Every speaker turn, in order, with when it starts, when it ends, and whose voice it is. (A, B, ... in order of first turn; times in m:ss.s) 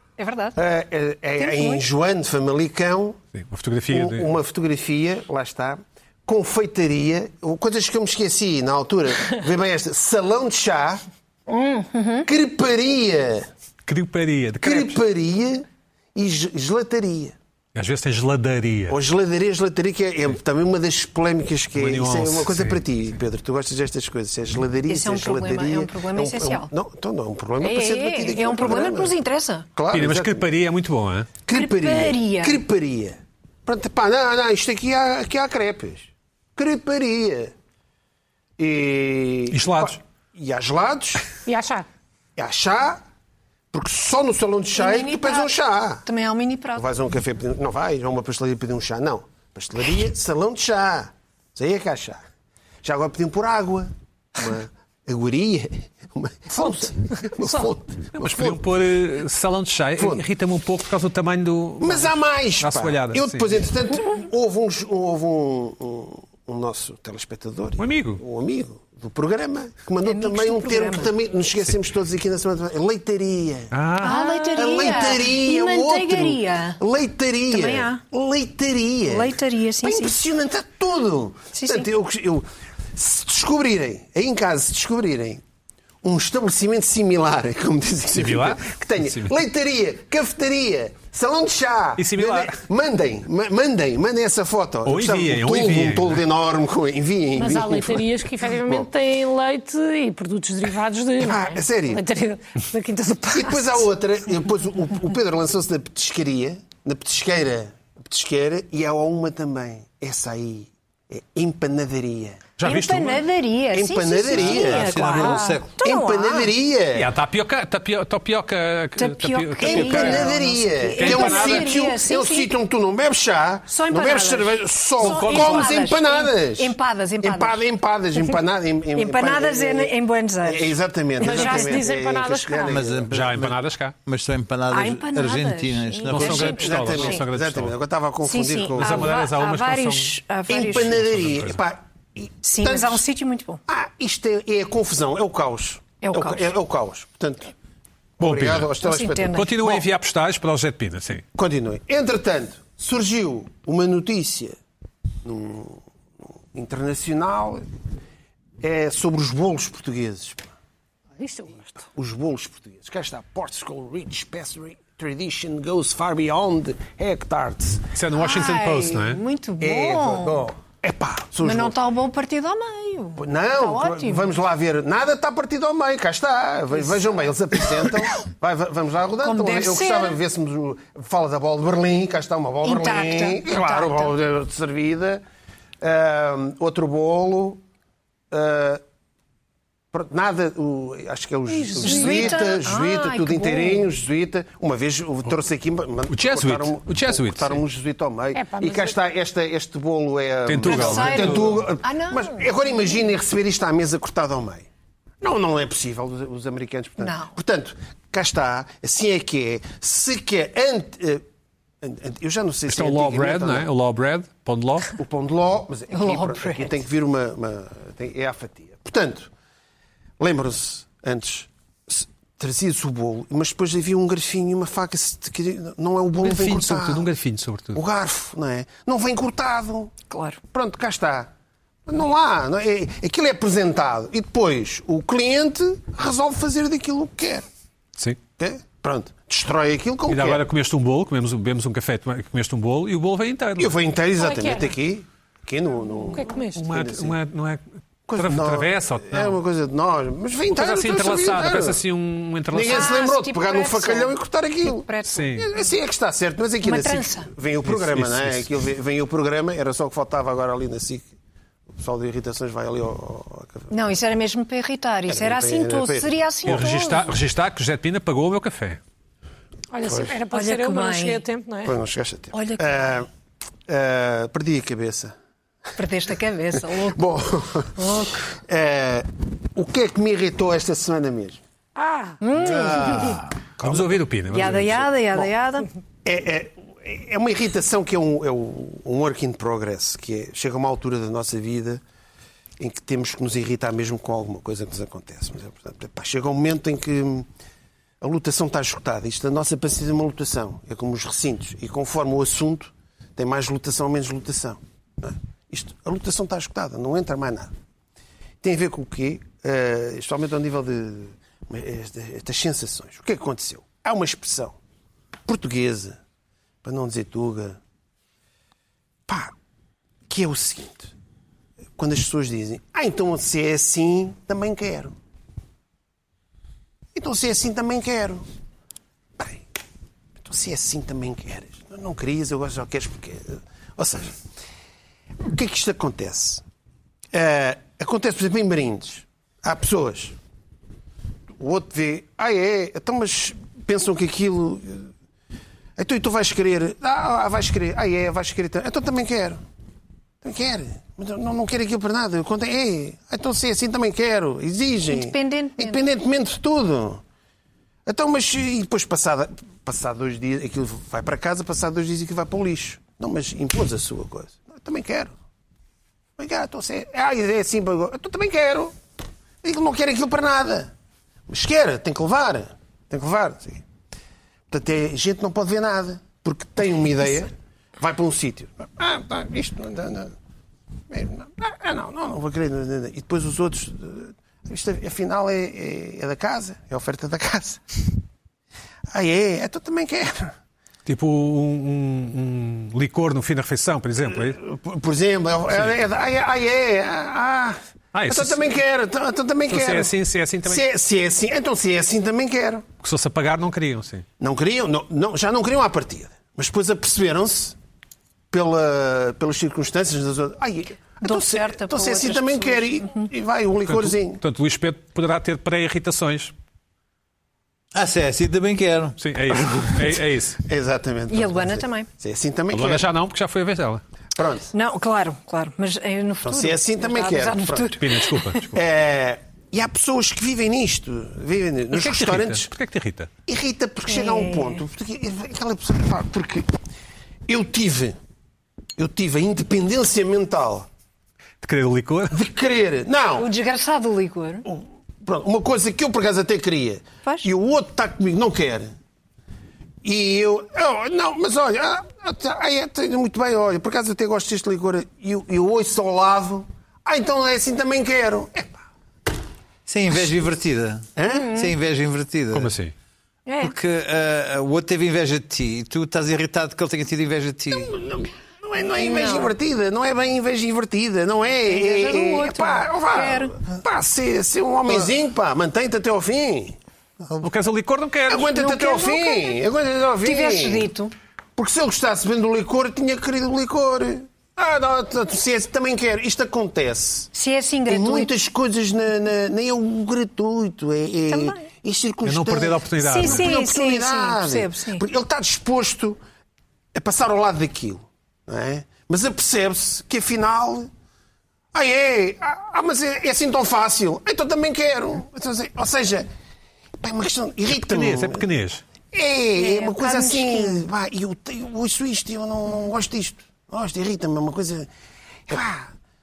0:00.2-0:00.6 A
0:00.6-0:03.2 B
0:01.4-0:01.8 A
0:03.3-0:04.3 C
0:03.9-0:11.0 B
0:11.5-0:12.3 A
0:12.3-0:13.5 B
0:13.9-0:15.0 C
0:14.6-0:17.4 B
0:17.8-0:19.0 C
0:18.9-0:29.2 B
0:21.8-0:22.8 C
0:24.9-0:26.7 A
0:27.6-0:29.7 A
0:29.8-0:30.4 B
0:29.9-0:31.3 C
0:31.5-0:37.5 B
0:31.5-0:32.6 A
0:38.6-0:41.3 B
0:39.5-0:40.0 C
0:41.5-0:41.9 D
0:42.4-0:43.0 B
0:43.7-0:46.0 B
0:44.8-0:45.5 A
0:46.0-0:46.8 A
0:46.8-0:52.2 B
0:52.8-0:58.6 B
0:57.4-0:57.7 D
0:58.2-1:03.7 C
1:00.0-1:00.2 B
1:01.8-1:25.4 B
1:07.8-1:08.2 C
1:10.0-1:11.1 A
1:13.7-1:14.9 C
1:14.0-1:16.8 A
1:17.5-1:18.0 A
1:19.1-1:20.2 A
1:21.5-1:21.9 A
1:26.0-1:38.1 B
1:28.2-1:29.4 C
1:32.0-1:32.6 C
1:34.8-1:36.2 C
1:37.4-1:43.9 D
1:41.2-1:42.0 B
1:43.3-1:52.5 B
1:52.6-1:53.2 C
1:52.6-1:56.5 A
1:53.7-1:57.1 B
1:54.4-1:55.8 E
1:57.0-2:00.4 C
1:59.0-2:02.5 A
1:59.6-2:13.2 B
2:01.0-2:01.8 C
2:03.7-2:07.6 A
2:05.0-2:05.8 C
2:09.0-2:11.9 A
2:11.2-2:12.8 D
2:12.7-2:16.4 E
2:13.1-2:14.0 C
2:14.7-2:17.2 A
2:16.1-2:17.8 C
2:16.2-2:19.2 B
2:18.2-2:21.0 A
2:18.8-2:20.2 C
2:20.5-2:23.0 B
2:21.0-2:21.6 C
2:22.4-2:23.6 A
2:23.7-2:27.5 B
2:26.0-2:26.5 A
2:28.2-2:29.5 B
2:28.2-2:28.7 C
2:28.8-2:29.8 A
2:29.3-2:31.2 C
2:31.4-2:34.6 B
2:35.2-2:35.8 B
2:36.5-2:37.6 B
2:38.6-2:40.5 B
2:41.2-2:41.8 D
2:41.9-2:47.8 B
2:47.9-2:49.2 C
2:48.2-2:50.5 A
2:49.6-2:51.8 B
2:51.4-2:54.4 A
2:53.2-3:05.2 B
2:59.2-3:00.2 A
3:02.6-3:04.1 A
3:05.8-3:07.6 B
3:08.3-3:08.8 B
3:09.9-3:24.7 B
3:11.5-3:12.4 D
3:11.8-3:13.9 A
3:16.1-3:17.6 C
3:18.4-3:19.0 D
3:20.5-3:21.5 C
3:20.6-3:23.0 A
3:25.2-3:31.2 B
3:27.0-3:27.4 A
3:31.8-3:33.7 B
3:32.7-3:34.9 C
3:35.0-3:39.3 B
3:35.9-3:36.8 A
3:40.2-3:47.1 B
3:46.2-3:47.8 C
3:47.8-3:50.0 B
3:50.1-3:50.4 A
3:50.5-3:51.3 B
3:51.9-3:57.5 B
3:58.4-4:00.4 B
4:00.1-4:03.8 C
4:03.6-4:07.2 B
4:04.2-4:04.8 D
4:06.1-4:06.6 D
4:06.6-4:07.6 C
4:08.1-4:11.8 B
4:08.2-4:09.4 C
4:10.5-4:13.0 C
4:12.5-4:21.1 B
4:12.6-4:15.3 A
4:15.0-4:15.5 C
4:16.6-4:17.3 A
4:17.6-4:18.5 C
4:21.8-4:23.7 B
4:23.7-4:27.1 A
4:25.1-4:26.2 B
4:26.4-4:28.8 C
4:29.7-4:31.8 D
4:29.9-4:30.2 B
4:30.3-4:31.2 A
4:31.6-4:33.1 B
4:32.3-4:32.9 A
4:33.7-4:35.1 B
4:35.8-4:37.0 A
4:36.7-4:41.4 B
4:37.8-4:38.2 A
4:41.8-4:42.2 D
4:42.2-4:43.2 A
4:42.4-4:44.6 B
4:42.6-4:43.2 E
4:43.6-4:44.9 C
4:44.3-4:45.7 A
4:46.0-4:51.8 B
4:52.6-4:57.3 B
4:58.0-5:07.5 B
5:08.4-5:14.6 B
5:15.3-5:16.0 B
5:16.6-5:17.6 B
5:19.1-5:19.3 B
5:20.1-5:20.9 B
5:21.8-5:25.0 B
5:26.9-5:28.2 B
5:29.2-5:29.4 B
5:30.2-5:34.2 B
5:35.2-5:36.4 B
5:37.1-5:40.2 B
5:41.4-5:44.9 B
5:45.8-5:49.4 B
5:50.2-5:57.0 B
5:54.9-5:55.8 A
5:57.9-6:05.2 B
6:06.2-6:08.7 B
6:09.4-6:10.7 B
6:11.3-6:13.6 B
6:14.5-6:20.1 B
6:20.9-6:27.6 B
6:28.9-6:30.3 B
6:30.9-6:34.4 C
6:34.1-6:37.6 B
6:35.5-6:35.8 C
6:37.9-6:38.5 C
6:38.1-6:39.9 B
6:39.5-6:40.6 C
6:40.5-6:42.6 B
6:42.8-6:44.0 C
6:44.2-6:47.6 B
6:48.3-6:54.2 B
6:51.0-6:53.1 A
6:53.7-6:56.3 C
6:57.7-6:59.9 E
6:59.0-7:00.4 C
7:00.4-7:02.9 B
7:01.1-7:01.9 A
7:02.5-7:03.8 C
7:04.2-7:04.5 B
7:04.5-7:08.4 A
7:06.2-7:07.8 B
7:07.8-7:08.6 C
7:08.5-7:12.5 B
7:11.7-7:13.1 C
7:13.3-7:16.5 B
7:13.9-7:14.6 A
7:17.3-7:18.0 B
7:18.8-7:20.7 B
7:21.4-7:22.2 C
7:22.1-7:23.3 B
7:23.2-7:24.5 A
7:24.5-7:28.7 B
7:29.8-7:38.6 B
7:39.7-7:42.5 E
7:41.0-7:41.3 B
7:41.1-7:41.5 A
7:42.3-7:42.7 C
7:43.3-7:43.6 A
7:43.4-7:47.7 E
7:47.5-7:56.6 B
7:48.8-7:49.3 A
7:51.4-7:53.4 A
7:57.2-7:58.3 C
7:58.1-8:00.7 B
7:58.3-7:59.4 A
8:00.0-8:00.9 A
8:01.4-8:07.1 B
8:07.1-8:08.1 A
8:07.7-8:16.0 B
8:11.1-8:11.5 A
8:12.0-8:13.4 C
8:12.8-8:14.8 A
8:16.8-8:20.7 B
8:21.5-8:26.1 B
8:26.8-8:28.2 B
8:27.6-8:28.6 C
8:28.9-8:34.7 B
8:29.4-8:30.7 A
8:35.3-8:35.7 B